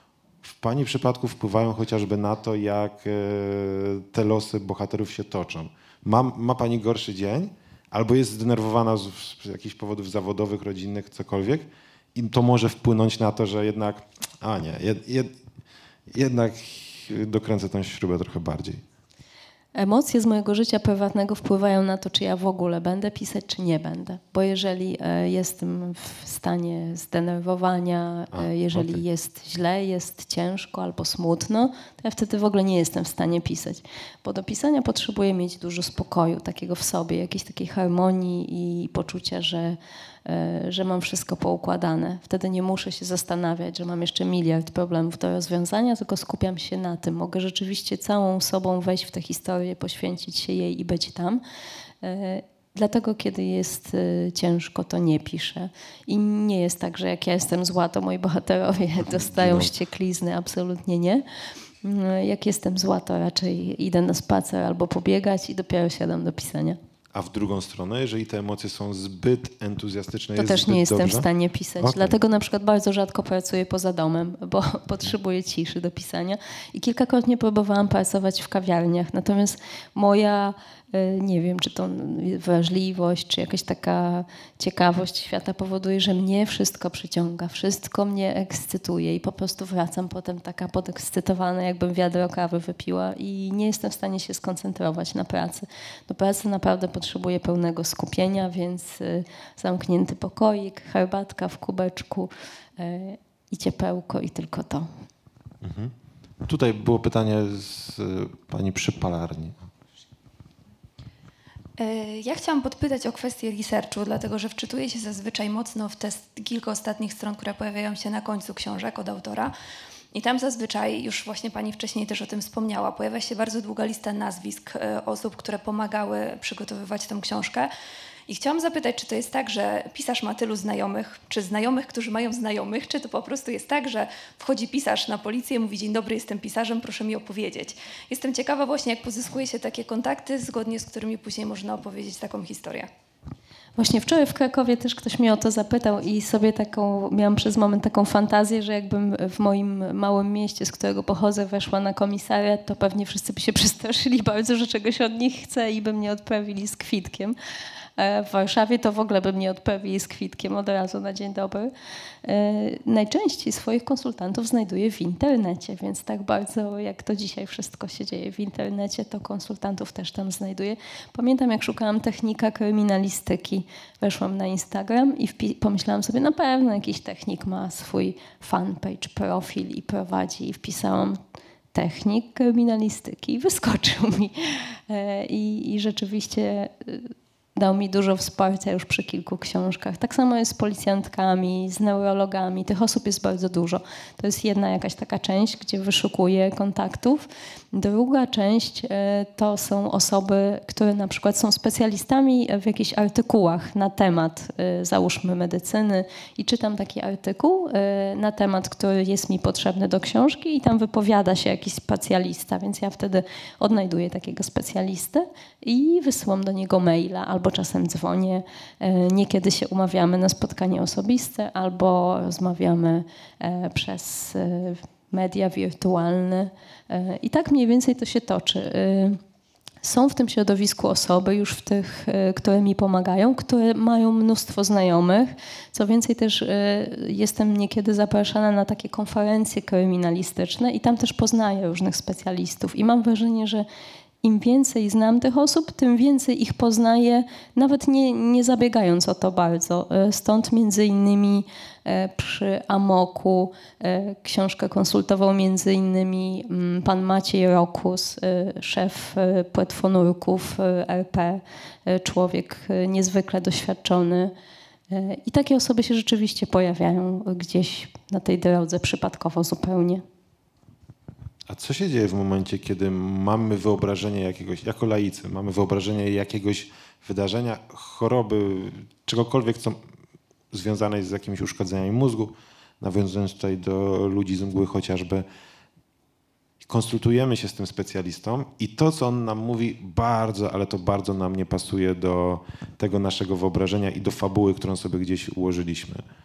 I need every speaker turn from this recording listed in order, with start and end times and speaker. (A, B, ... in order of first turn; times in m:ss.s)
0:00.4-0:15.3 A
0:16.1-0:18.8 A
0:19.8-0:51.4 B
0:28.3-0:29.0 A
0:52.0-1:01.2 B
0:59.1-0:59.7 A
1:01.8-1:06.8 B
1:07.1-1:11.3 A
1:10.4-1:44.9 B
1:11.8-1:12.2 A
1:45.6-1:49.7 A
1:51.8-1:59.5 C
2:00.1-2:07.7 C
2:08.3-2:22.9 C
2:23.8-2:37.4 B
2:38.0-2:41.7 B
2:42.2-3:01.2 B
3:01.7-3:49.2 B
3:49.8-4:03.7 B
4:04.2-4:24.3 B
4:24.9-4:30.0 B
4:31.5-4:39.8 A
4:40.5-4:45.3 A
4:46.6-4:56.0 A